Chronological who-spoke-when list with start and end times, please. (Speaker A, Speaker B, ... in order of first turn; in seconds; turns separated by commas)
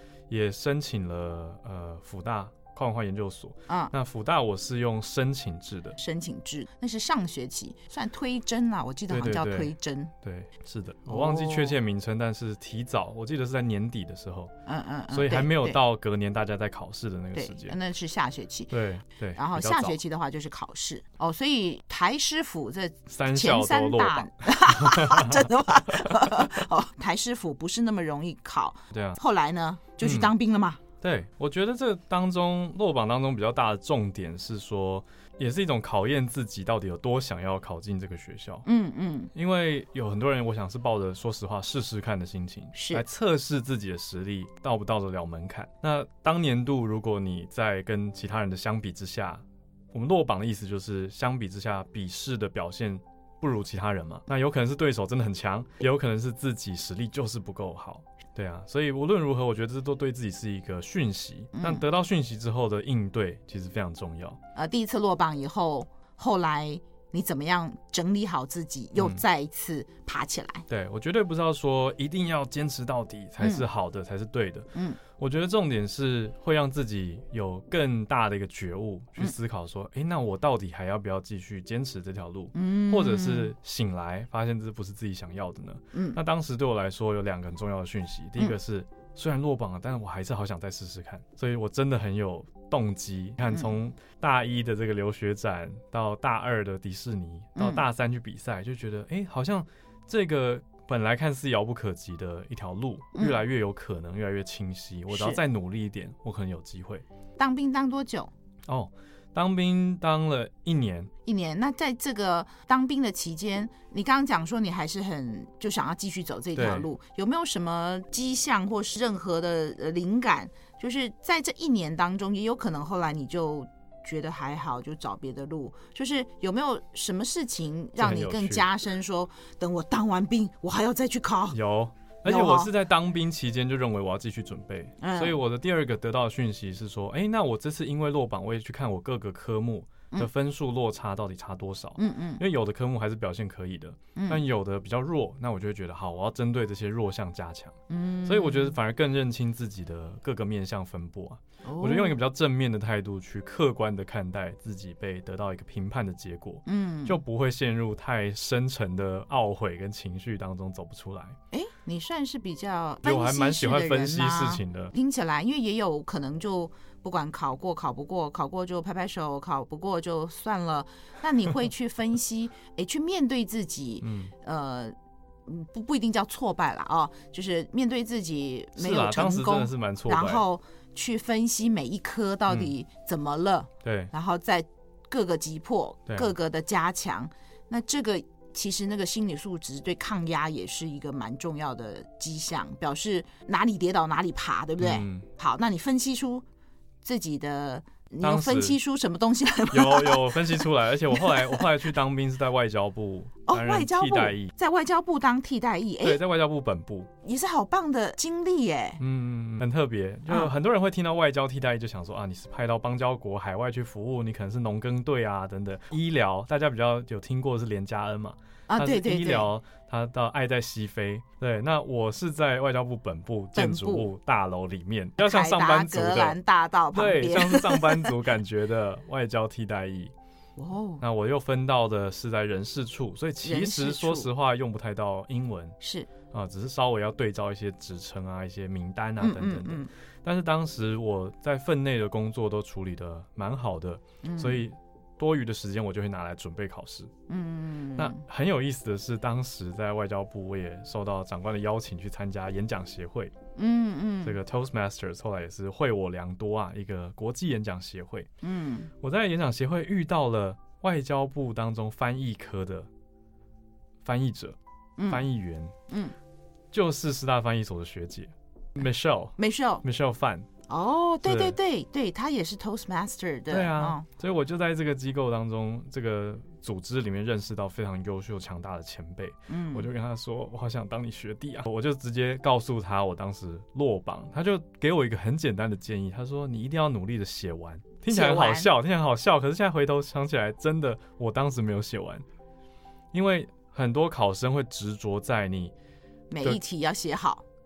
Speaker A: 0.3-6.0, Speaker B: 6.0-10.1, Speaker A: 9.1-14.5, Speaker B: 11.1-11.8, Speaker B: 14.7-15.8, Speaker A: 15.1-17.8, Speaker B: 17.4-18.8, Speaker A: 18.7-20.0, Speaker B: 19.4-30.8, Speaker A: 23.1-25.5, Speaker A: 28.9-29.2, Speaker A: 30.0-30.3, Speaker A: 31.0-38.6, Speaker B: 38.6-39.3, Speaker A: 39.3-64.4, Speaker B: 42.7-43.0, Speaker B: 61.5-61.8, Speaker B: 64.5-70.7, Speaker A: 69.0-69.2, Speaker A: 70.7-107.0, Speaker B: 74.7-75.0, Speaker B: 82.5-83.5, Speaker B: 85.9-86.2, Speaker B: 97.6-97.8, Speaker B: 105.1-105.4, Speaker B: 107.4-108.3, Speaker A: 108.7-111.1, Speaker B: 111.2-131.6, Speaker A: 116.5-116.9, Speaker A: 128.0-128.7, Speaker A: 131.5-161.4, Speaker B: 132.3-132.7, Speaker B: 135.0-135.4, Speaker B: 142.0-142.4, Speaker B: 144.2-144.4, Speaker B: 147.9-148.8, Speaker B: 151.7-152.2, Speaker B: 156.7-157.2, Speaker B: 161.5-174.9, Speaker A: 163.0-164.9, Speaker A: 174.0-174.3, Speaker B: 175.5-196.4, Speaker A: 178.8-180.4, Speaker A: 183.8-184.1, Speaker A: 194.8-195.3, Speaker B: 197.0-201.7, Speaker A: 198.2-198.8, Speaker A: 199.7-204.5, Speaker B: 203.5-206.2, Speaker A: 206.0-207.1, Speaker B: 207.2-209.0, Speaker A: 209.0-226.4, Speaker B: 218.7-219.5, Speaker B: 223.6-224.1, Speaker B: 225.2-228.1, Speaker A: 226.9-230.1, Speaker B: 230.6-231.0, Speaker A: 231.0-235.8, Speaker B: 233.4-234.3, Speaker B: 235.8-236.1, Speaker A: 236.3-247.1, Speaker B: 239.2-239.9, Speaker B: 244.2-244.6, Speaker B: 247.3-248.2, Speaker A: 248.0-253.3, Speaker B: 253.6-254.4, Speaker A: 254.2-258.3, Speaker B: 258.4-258.9, Speaker A: 259.0-262.9, Speaker A: 264.0-264.6, Speaker B: 265.0-265.2, Speaker A: 265.1-265.7, Speaker B: 265.9-266.1, Speaker A: 266.7-270.5, Speaker B: 269.4-269.8, Speaker B: 270.7-274.1, Speaker A: 271.2-271.6, Speaker A: 273.5-292.2, Speaker B: 279.5-279.9, Speaker B: 288.1-288.7, Speaker A: 293.1-295.7, Speaker B: 296.3-297.4